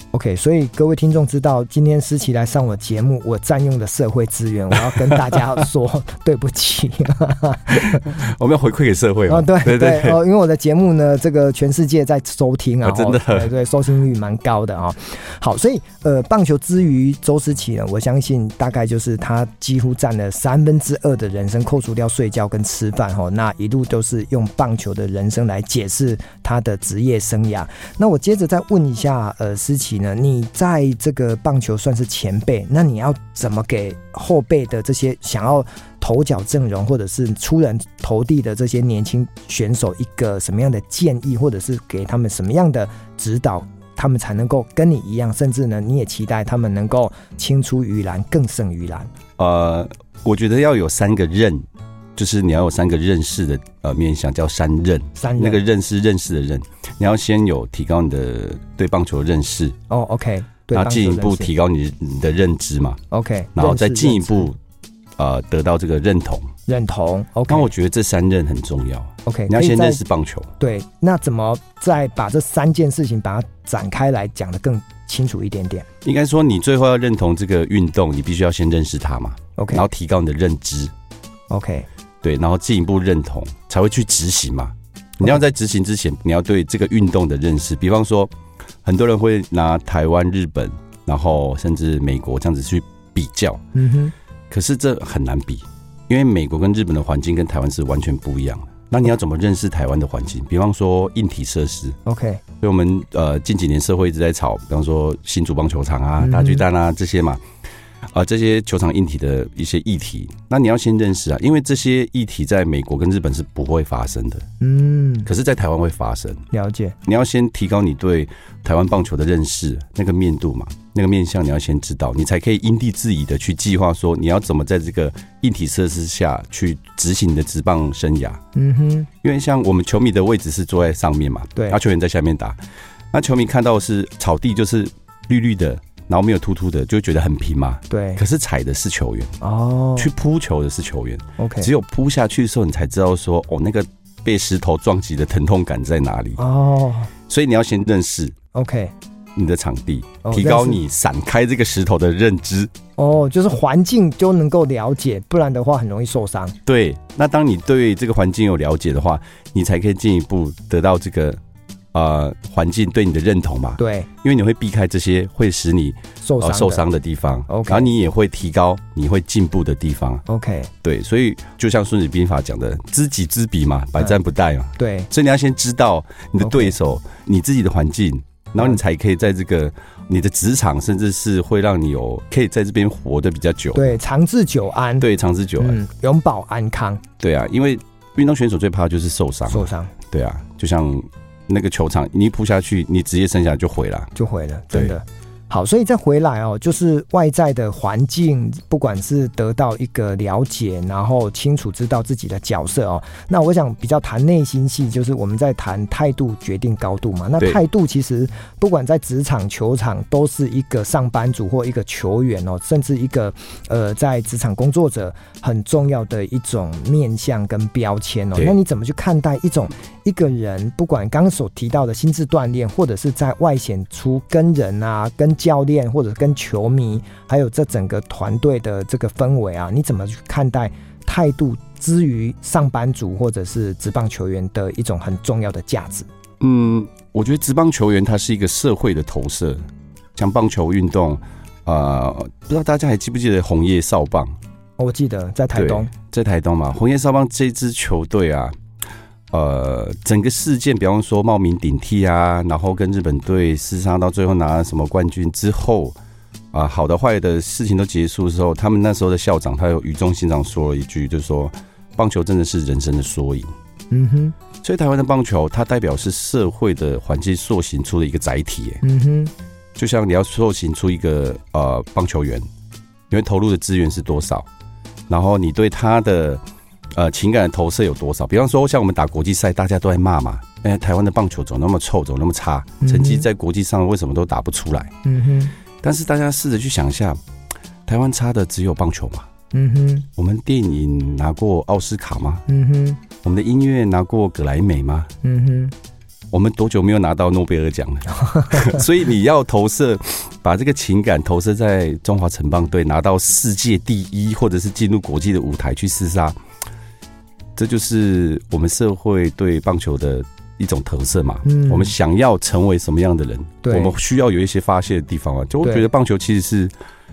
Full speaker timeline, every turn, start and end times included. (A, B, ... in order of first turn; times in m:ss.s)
0:00.1-0:08.1 A
0:04.8-0:05.4 B
0:07.7-0:10.2 B
0:09.3-0:49.1 A
0:12.8-0:13.5 B
0:49.4-0:59.8 B
0:55.2-0:55.6 A
0:59.9-1:01.5 A
1:00.7-1:03.0 B
1:03.1-1:04.5 A
1:03.5-1:04.6 B
1:05.2-1:06.5 B
1:06.7-1:07.7 A
1:07.5-1:10.5 B
1:09.2-1:10.0 A
1:10.6-1:15.8 A
1:16.0-1:20.9 B
1:19.6-1:19.8 A
1:21.5-1:21.9 A
1:22.2-1:28.3 B
1:28.8-1:33.6 B
1:33.7-1:34.1 A
1:34.5-1:42.0 B
1:42.0-1:42.4 A
1:42.6-1:47.4 B
1:46.2-1:46.6 A
1:48.1-1:54.4 B
1:54.6-1:55.3 A
1:55.2-1:56.4 B
1:56.5-1:57.0 A
1:57.0-2:08.4 B
2:08.5-2:09.1 A
2:09.2-2:12.6 B
2:13.1-2:19.3 B
2:17.9-2:18.2 A
2:19.4-2:20.1 A
2:20.0-2:26.4 B
2:21.4-2:21.7 A
2:26.4-2:27.1 A
2:27.3-2:28.3 B
2:28.5-2:28.9 A
2:29.4-2:32.7 B
2:30.2-2:30.8 A
2:33.0-2:36.6 A
2:36.6-2:41.4 B
2:41.9-2:50.2 B
2:43.8-2:44.1 A
2:46.2-2:46.8 A
2:47.5-2:47.9 A
2:50.3-2:50.7 A
2:50.8-3:03.9 B
2:54.8-2:55.1 A
2:56.4-2:56.7 A
3:03.7-3:05.1 A
3:05.0-3:05.8 B
3:05.6-3:07.0 A
3:07.2-3:14.1 B
3:09.5-3:09.9 A
3:14.2-3:56.1 A
3:56.4-3:59.6 B
4:00.2-4:04.4 B
4:04.8-4:05.9 A
4:05.5-4:08.5 B
4:09.3-4:16.0 B
4:16.5-4:23.5 B
4:23.9-4:24.3 A
4:24.6-4:28.8 B
4:28.8-4:29.3 A
4:29.8-4:32.4 B
4:33.1-4:34.5 B
4:35.1-4:36.4 B
4:36.9-4:44.9 B
4:42.8-4:43.2 A
4:45.0-4:45.5 A
4:45.8-4:47.2 B
4:47.8-4:49.3 B
4:49.5-4:50.1 A
4:50.2-4:52.4 B
4:52.5-4:53.0 A
4:53.2-4:55.1 B
4:55.2-4:55.7 A
4:56.3-5:06.4 B
4:58.2-4:58.8 A
5:07.6-5:16.7 B
5:11.4-5:11.9 A
5:13.6-5:13.9 A